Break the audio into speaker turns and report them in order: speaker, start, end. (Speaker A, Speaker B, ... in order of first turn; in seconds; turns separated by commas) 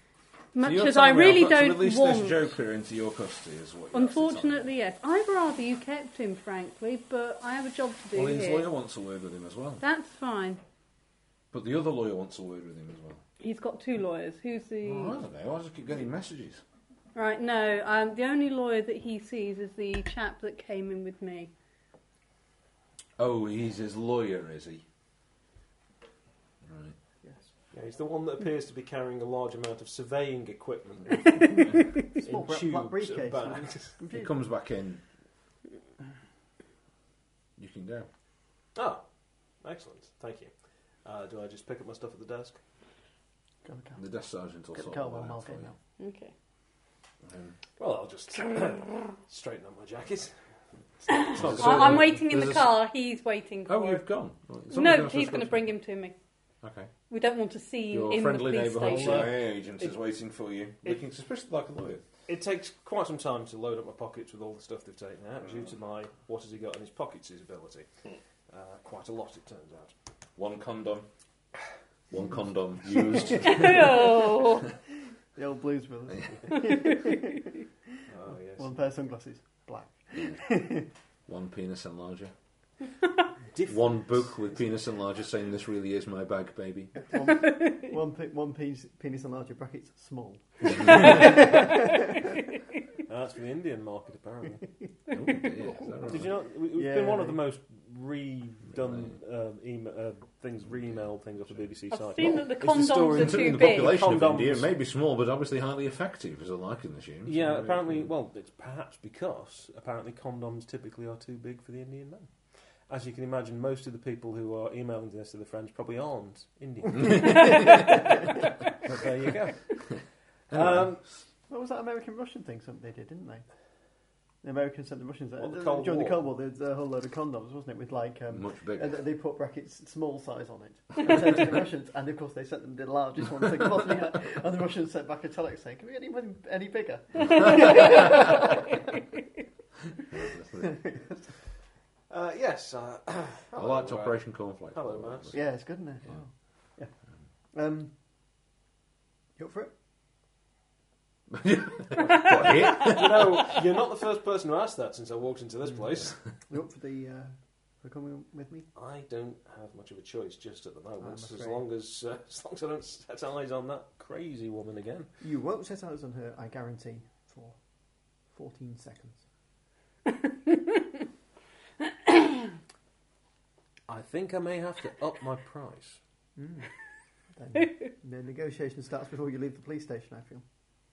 Speaker A: 0.5-2.5, Speaker B: 0.6-4.7, Speaker A: 3.9-8.7, Speaker B: 8.2-9.8, Speaker A: 9.8-10.6, Speaker B: 11.5-13.2, Speaker A: 13.4-15.2, Speaker B: 14.8-16.6, Speaker A: 17.1-21.5, Speaker B: 23.2-24.9, Speaker B: 26.6-27.0, Speaker C: 27.2-27.5, Speaker D: 27.7-34.0, Speaker A: 31.4-31.8, Speaker B: 31.5-31.8, Speaker C: 32.2-34.4, Speaker B: 34.1-35.0, Speaker B: 37.6-38.1, Speaker D: 38.8-39.0, Speaker D: 39.6-40.5, Speaker D: 41.0-42.6, Speaker C: 43.6-44.0, Speaker B: 44.0-45.7, Speaker C: 44.7-45.8, Speaker A: 46.0-46.3, Speaker B: 47.2-47.6, Speaker D: 47.8-50.4, Speaker D: 51.0-52.1, Speaker A: 51.1-54.0, Speaker B: 51.4-52.7, Speaker B: 53.7-55.7, Speaker A: 54.7-56.1, Speaker B: 56.6-56.9, Speaker A: 57.1-59.5, Speaker B: 57.9-62.0, Speaker D: 58.8-59.4, Speaker D: 62.3-67.9, Speaker D: 68.5-69.9, Speaker B: 70.4-71.1, Speaker B: 72.1-74.4, Speaker A: 73.4-74.7, Speaker C: 75.3-77.6, Speaker A: 76.7-77.2, Speaker D: 78.1-78.8, Speaker C: 78.6-80.9, Speaker B: 81.3-82.3, Speaker D: 83.5-84.1, Speaker B: 83.7-87.2, Speaker C: 87.1-92.3, Speaker D: 93.1-94.7, Speaker B: 95.1-96.3, Speaker D: 96.1-104.7, Speaker C: 96.8-97.4, Speaker B: 98.7-99.1, Speaker A: 101.9-104.0, Speaker B: 103.1-108.1, Speaker D: 107.2-112.3, Speaker D: 112.9-119.9, Speaker B: 117.0-117.7, Speaker A: 117.4-117.9, Speaker D: 120.5-121.1, Speaker B: 120.5-120.9, Speaker C: 121.5-123.4, Speaker C: 124.4-138.8, Speaker D: 125.4-126.3, Speaker B: 128.3-128.9, Speaker B: 140.1-140.7, Speaker C: 140.6-141.2, Speaker D: 142.1-145.4, Speaker B: 143.6-145.4, Speaker C: 145.3-146.9, Speaker C: 147.5-147.9, Speaker C: 149.4-149.7, Speaker B: 151.3-153.5, Speaker D: 152.5-156.2, Speaker C: 156.5-158.7, Speaker D: 158.8-165.1, Speaker C: 161.0-161.6, Speaker C: 165.2-167.6, Speaker C: 168.3-169.2, Speaker D: 173.9-176.0, Speaker C: 176.4-176.7, Speaker C: 177.3-180.4